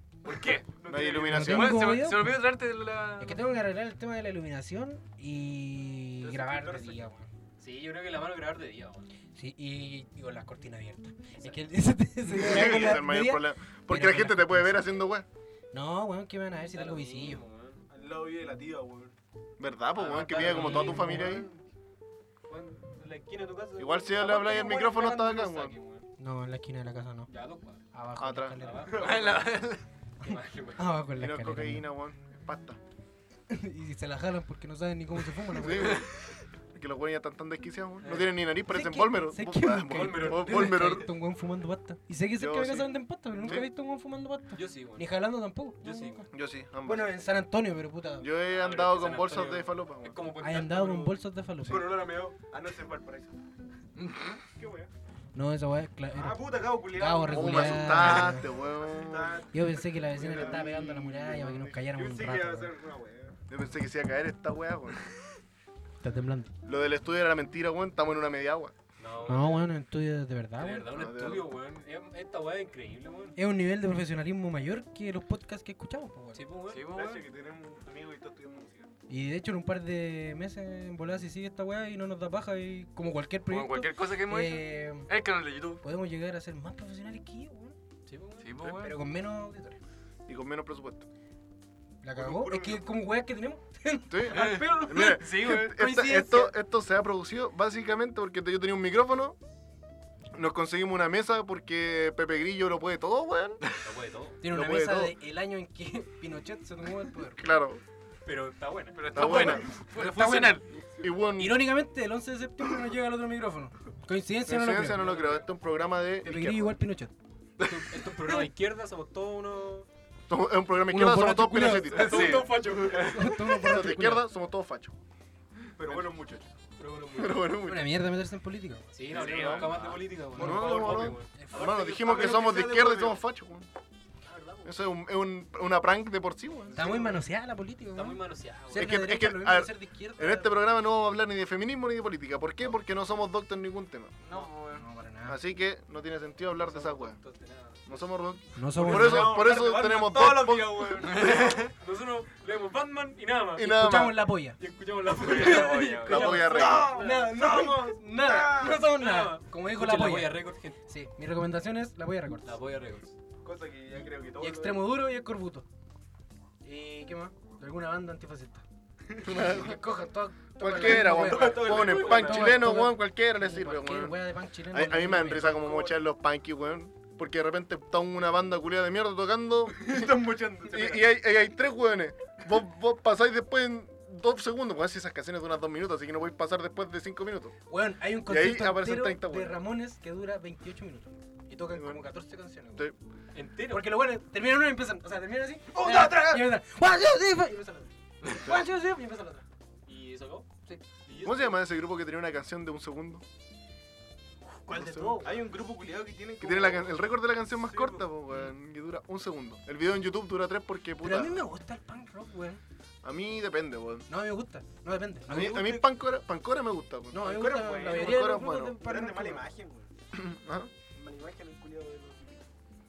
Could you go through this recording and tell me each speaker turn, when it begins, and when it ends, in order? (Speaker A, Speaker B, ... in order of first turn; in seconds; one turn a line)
Speaker A: 0.2-0.7
Speaker B: 0.8-1.6
Speaker C: 0.9-1.9
Speaker D: 1.3-2.5
Speaker E: 1.4-3.4
Speaker D: 3.2-7.3
Speaker B: 6.2-7.0
Speaker A: 7.6-9.1
Speaker D: 9.3-14.9
Speaker C: 12.3-15.3
Speaker D: 15.7-17.4
Speaker A: 16.7-17.8
Speaker B: 17.9-19.1
Speaker C: 19.6-21.5
Speaker A: 19.9-21.4
Speaker D: 20.4-21.3
Speaker B: 21.1-21.6
Speaker A: 22.5-26.1
Speaker C: 23.8-25.8
Speaker D: 26.2-27.3
Speaker A: 27.3-27.8
Speaker D: 27.9-29.1
Speaker C: 28.2-28.6
Speaker A: 28.6-29.6
Speaker B: 28.9-29.6
Speaker E: 28.9-29.8
Speaker D: 30.2-31.9
Speaker A: 30.2-30.9
Speaker C: 31.2-32.8
Speaker D: 33.5-36.0
Speaker C: 35.5-36.1
Speaker C: 36.7-41.1
Speaker A: 38.0-38.4
Speaker D: 38.7-46.3
Speaker A: 39.9-41.0
Speaker C: 42.4-43.7
Speaker A: 44.5-45.1
Speaker A: 45.8-46.2
Speaker C: 46.3-47.1
Speaker D: 46.8-48.3
Speaker C: 48.2-50.2
Speaker A: 48.5-51.2
Speaker D: 50.4-52.1
Speaker B: 51.6-53.4
Speaker E: 54.0-54.4
Speaker B: 54.4-54.9
Speaker D: 55.4-58.5
Speaker B: 56.1-60.7
Speaker C: 57.3-59.5
Speaker D: 59.5-62.7
Speaker C: 60.1-61.8
Speaker B: 61.9-63.4
Speaker C: 63.5-65.0
Speaker D: 66.0-66.5
Speaker C: 66.6-68.7
Speaker A: 69.0-69.7
Speaker D: 69.3-70.9
Speaker A: 70.6-73.4
Speaker C: 70.9-71.5
Speaker D: 73.4-76.4
Speaker A: 76.3-76.8
Speaker E: 76.7-77.3
Speaker B: 76.9-78.9
Speaker D: 79.1-85.1
Speaker E: 83.5-85.8
Speaker D: 85.8-87.8
Speaker A: 88.1-88.5
Speaker E: 88.4-89.0
Speaker D: 88.8-89.8
Speaker C: 90.3-91.1
Speaker D: 92.0-96.5
Speaker B: 92.1-93.0
Speaker C: 94.1-99.4
Speaker A: 94.4-95.7
Speaker C: 100.3-103.7
Speaker A: 103.8-104.4
Speaker D: 104.4-107.4
Speaker C: 104.5-105.2
Speaker C: 107.4-107.8
Speaker A: 108.2-110.4
Speaker E: 109.0-110.7
Speaker C: 109.1-109.7
Speaker D: 109.9-110.6
Speaker C: 110.9-111.8
Speaker D: 111.4-115.3
Speaker C: 114.5-116.8
Speaker A: 115.0-115.4
Speaker D: 116.2-117.1
Speaker A: 117.6-119.9
Speaker C: 120.3-125.0
Speaker D: 120.9-124.3
Speaker A: 121.6-123.3
Speaker E: 122.0-123.1
Speaker B: 125.8-126.5
Speaker A: 126.8-127.5
Speaker C: 127.2-128.0
Speaker D: 127.6-129.0
Speaker A: 128.9-131.3
Speaker B: 129.1-129.9
Speaker C: 129.1-129.7
Speaker E: 129.1-130.0
Speaker C: 130.3-133.7
Speaker D: 130.4-130.8
Speaker D: 131.3-131.8
Speaker B: 131.5-133.2
Speaker A: 134.2-134.8
Speaker C: 134.6-136.9
Speaker B: 136.7-137.2
Speaker D: 136.7-140.8
Speaker A: 137.9-138.9
Speaker C: 138.7-144.2
Speaker E: 144.2-144.9
Speaker D: 144.7-145.4
Speaker C: 145.3-147.2
Speaker A: 146.7-148.1
Speaker C: 147.9-151.0
Speaker D: 148.6-149.4
Speaker B: 148.8-151.7
Speaker A: 151.2-153.7
Speaker E: 151.2-151.7
Speaker C: 153.5-154.3
Speaker D: 153.6-154.6
Speaker A: 154.6-157.1
Speaker E: 155.1-156.4
Speaker D: 155.3-162.6
Speaker C: 156.0-157.0
Speaker B: 156.2-158.9
Speaker A: 158.9-160.8
Speaker A: 162.4-163.1
Speaker B: 163.4-165.0
Speaker D: 164.4-165.7
Speaker D: 166.6-168.6
Speaker C: 169.2-169.8
Speaker D: 169.2-175.7
Speaker C: 170.6-187.6
Speaker B: 170.8-172.6
Speaker A: 171.7-172.5
Speaker B: 175.5-175.9
Speaker B: 179.8-181.1
Speaker D: 187.7-192.9
Speaker C: 188.2-189.6
Speaker C: 191.7-192.1
Speaker A: 193.3-194.1
Speaker D: 193.7-199.4
Speaker B: 195.7-196.6
Speaker A: 199.9-201.6
Speaker C: 201.2-203.2
Speaker C: 204.7-205.3
Speaker D: 204.7-205.5
Speaker B: 205.2-208.1
Speaker C: 206.4-211.4
Speaker D: 211.0-212.6
Speaker C: 213.0-214.1
Speaker D: 214.1-215.3
Speaker B: 215.3-215.9
Speaker C: 215.3-217.3
Speaker D: 217.1-219.5
Speaker B: 217.2-219.9
Speaker C: 217.8-218.8
Speaker C: 220.1-220.7
Speaker B: 220.9-222.4